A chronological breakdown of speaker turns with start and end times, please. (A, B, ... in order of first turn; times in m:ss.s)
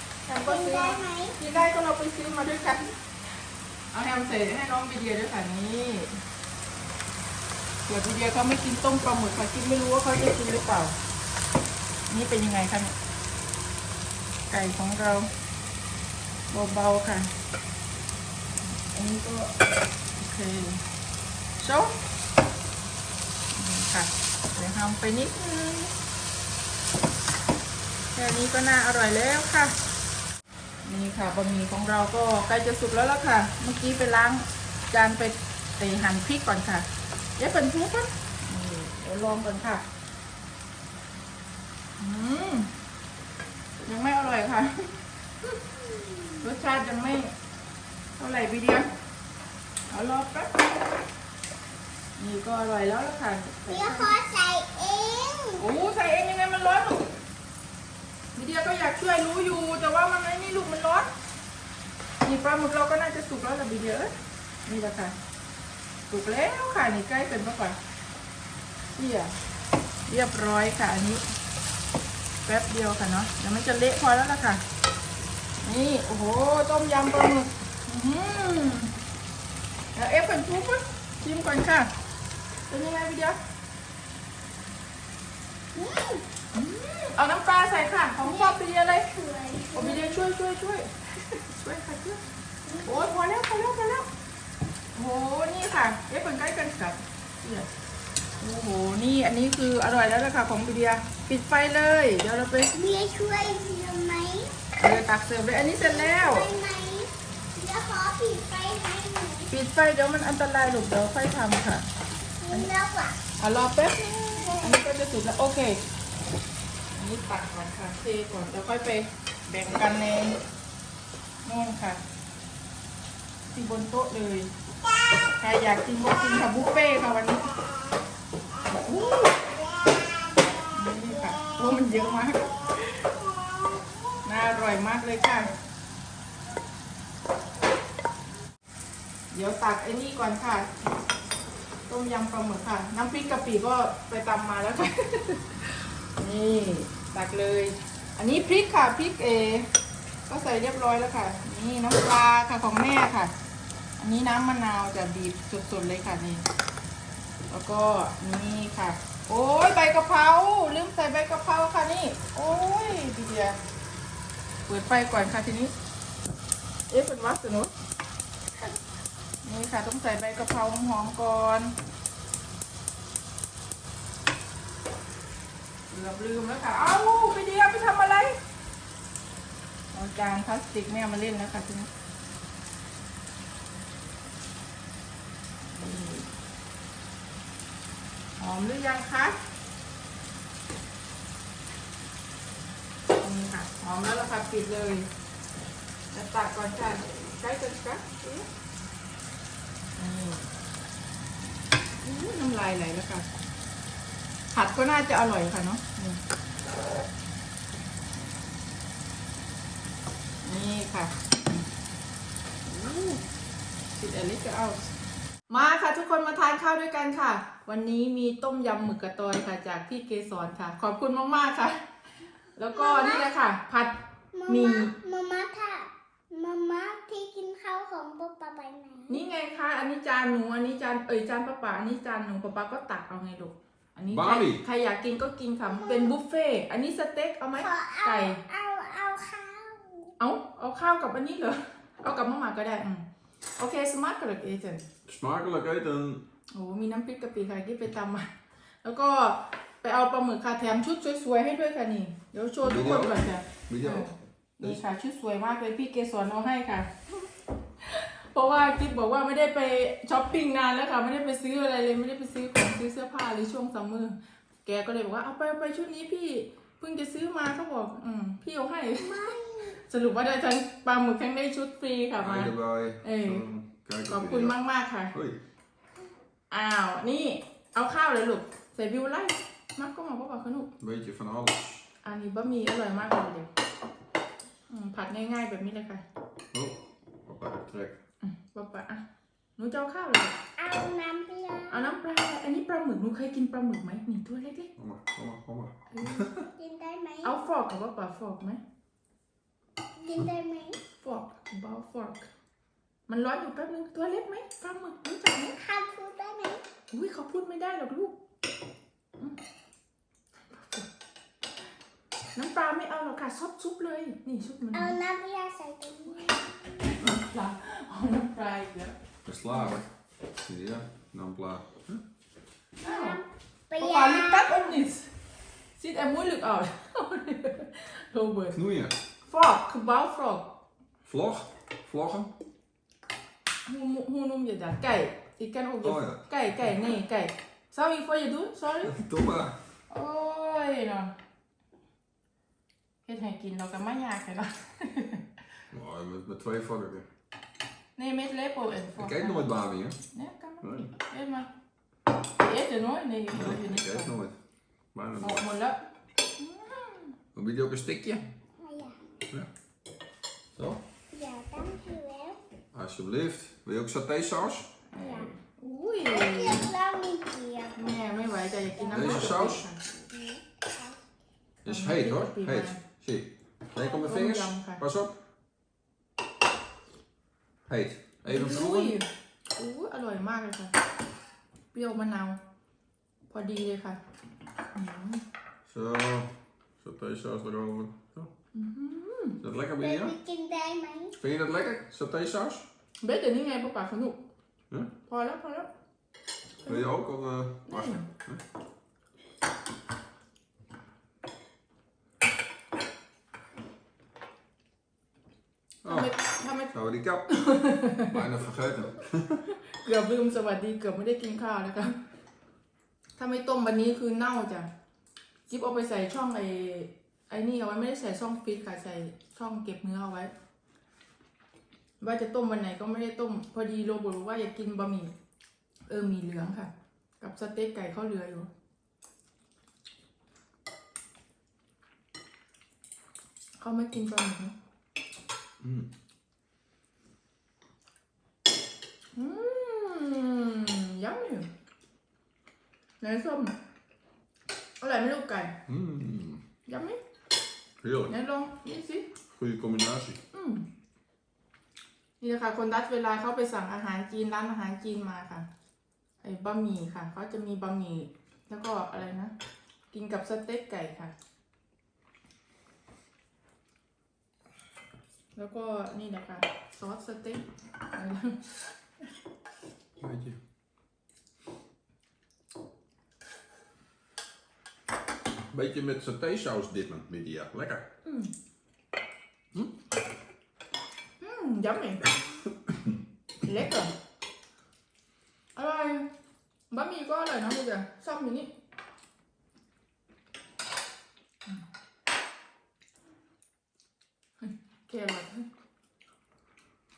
0:00.3-0:02.9 A
0:00.4-0:01.4 B
0:03.9-0:06.2 A
0:07.9-0:10.9 A
0:12.1-0:13.0 A
0:14.5-0:15.3 A
0:16.5-0:17.3 A
0:18.6-0:19.5 A
0:20.2-0:20.8 A
0:21.6-0:21.9 A
0:23.5-0:25.9 A
0:28.1-0:29.7 A
0:30.8-0:39.8 A
0:42.0-0:42.7 A
0:43.8-0:44.9 A
0:45.8-0:46.4 B
0:46.4-0:47.3 A
0:48.2-0:48.9 A
0:49.9-0:50.5 A
0:52.2-0:54.1 A
0:53.7-0:55.6 B
0:55.6-0:57.1 A
0:58.3-1:01.1 A
1:02.2-1:04.1 A
1:04.6-1:05.2 A
1:06.1-1:07.8 A
1:09.0-1:09.3 A
1:10.1-1:11.2 A
1:12.4-1:14.6 A
1:15.6-1:18.9 A
1:20.0-1:21.9 A
1:22.7-1:23.4 A
1:25.7-1:26.2 B
1:26.5-1:29.1 A
1:28.2-1:30.2 B
1:29.7-1:32.2 A
1:32.6-1:33.1 B
1:32.8-1:34.1 A
1:35.0-1:37.7 A
1:38.4-1:42.7 A
1:42.7-1:44.6 B
1:44.8-1:46.5 A
1:45.8-1:49.5 B
1:49.5-1:51.8 A
1:52.4-1:53.2 B
1:53.4-1:55.8 A
1:54.4-1:54.8 B
1:56.9-2:00.4 A
2:01.4-2:02.0 A
2:03.5-2:04.5 A
2:05.4-2:07.5 A
2:06.4-2:06.7 B
2:08.5-2:12.8 B
2:08.6-2:09.3 A
2:10.7-2:13.1 A
2:14.2-2:15.5 A
2:19.3-2:20.7 A
2:21.9-2:29.7 A
2:30.3-2:33.3 A
2:34.0-2:36.4 A
2:37.5-2:43.6 A
2:44.7-2:45.7 A
2:46.9-2:47.7 A
2:49.4-2:51.7 A
2:55.9-2:58.4 A
2:59.9-3:01.9 A
3:05.7-3:06.3 A
3:08.4-3:09.4 A
3:13.2-3:15.1 A
3:16.1-3:18.5 A
3:20.0-3:20.5 A
3:22.0-3:23.3 A
3:24.5-3:26.2 A
3:30.4-3:31.1 A
3:32.6-3:33.2 A
3:34.0-3:34.9 A
3:35.5-3:41.8 A
3:42.6-3:43.9 A
3:42.7-3:43.3 B
3:44.3-3:49.2 B
3:44.5-3:44.9 A
3:49.1-3:58.4 A
3:54.1-3:54.6 C
3:55.7-3:56.2 B
3:57.6-4:00.1 B
4:00.2-4:03.0 A
4:03.6-4:04.8 A
4:05.0-4:06.2 C
4:06.5-4:08.3 A
4:08.8-4:16.9 A
4:12.6-4:14.1 C
4:17.8-4:29.3 A
4:29.0-4:29.8 B
4:29.8-4:33.4 A
4:32.2-4:34.5 C
4:34.1-4:35.1 A
4:35.1-4:35.4 C
4:36.5-4:40.7 A
4:40.8-4:41.8 C
4:42.0-4:43.5 A
4:44.7-4:46.0 A
4:46.5-4:48.0 C
4:48.2-4:49.0 A
4:49.6-4:50.4 A
4:50.6-4:51.9 B
4:51.7-4:54.7 A
4:54.8-4:56.4 C
4:55.9-4:56.3 A
4:56.6-4:57.4 B
4:57.2-4:58.6 A
5:00.0-5:00.8 B
5:01.0-5:02.3 A
5:03.1-5:05.6 A
5:05.6-5:06.6 B
5:06.9-5:08.2 A
5:10.5-5:10.9 A
5:12.4-5:15.0 A
5:14.7-5:16.5 B
5:16.8-5:18.9 A
5:19.2-5:19.9 C
5:19.5-5:19.8 A
5:20.4-5:22.0 C
5:22.8-5:23.2 A
5:22.8-5:24.8 B
5:23.8-5:25.1 A
5:25.8-5:28.6 A
5:28.5-5:29.0 C
5:29.3-5:30.5 A
5:31.0-5:32.3 C
5:33.6-5:39.0 A
5:35.8-5:36.7 C
5:38.8-5:39.6 C
5:39.9-5:41.1 A
5:43.0-5:45.2 A
5:45.7-5:47.1 C
5:48.0-5:49.5 A
5:49.0-5:50.0 C
5:50.1-5:51.5 A
5:50.6-5:50.9 C
5:52.4-5:54.1 A
5:53.3-5:54.4 C
5:54.9-5:55.5 C
5:55.2-5:55.8 A
5:56.4-5:57.1 A
5:57.3-5:58.3 C
5:58.6-5:59.0 B
6:00.5-6:00.8 C
6:01.1-6:02.4 B
6:02.7-6:04.7 C
6:04.9-6:06.7 A
6:05.0-6:05.3 B
6:06.0-6:07.8 B
6:07.8-6:09.8 A
6:08.8-6:11.0 B
6:08.9-6:09.6 C
6:11.6-6:15.2 C
6:11.7-6:12.8 A
6:14.0-6:14.8 A
6:17.7-6:19.0 C
6:18.2-6:20.7 A
6:21.7-6:22.4 A
6:23.3-6:24.0 A
6:24.7-6:25.2 A
6:25.6-6:28.3 C
6:28.5-6:29.4 A
6:29.4-6:30.1 C
6:29.8-6:31.2 B
6:31.2-6:32.6 C
6:33.0-6:34.2 A
6:35.1-6:35.7 A
6:36.6-6:38.4 C
6:37.7-6:38.1 A
6:45.8-6:46.1 C
6:45.9-6:46.7 A
6:46.7-6:47.3 C
6:47.3-6:48.2 A
6:48.1-6:49.4 C
6:49.5-6:52.0 A
6:53.2-6:54.7 A
6:55.5-7:00.3 A
7:02.0-7:05.1 A
7:05.9-7:08.5 A
7:13.6-7:14.5 A
7:15.6-7:15.9 C
7:19.1-7:21.5 A
7:23.0-7:23.5 A
7:24.8-7:25.5 A
7:25.7-7:26.4 C
7:26.6-7:27.0 A
7:27.8-7:28.1 C
7:28.1-7:29.1 A
7:29.3-7:30.2 C
7:30.3-7:30.6 A
7:32.2-7:35.5 A
7:36.2-7:39.3 A
7:39.9-7:41.1 A
7:45.4-7:48.7 A
7:50.0-7:50.4 C
7:55.5-7:57.8 C
7:58.0-7:58.3 A
8:01.2-8:02.0 A
8:03.4-8:03.9 A
8:05.6-8:06.1 A
8:06.7-8:08.5 A
8:14.4-8:15.5 A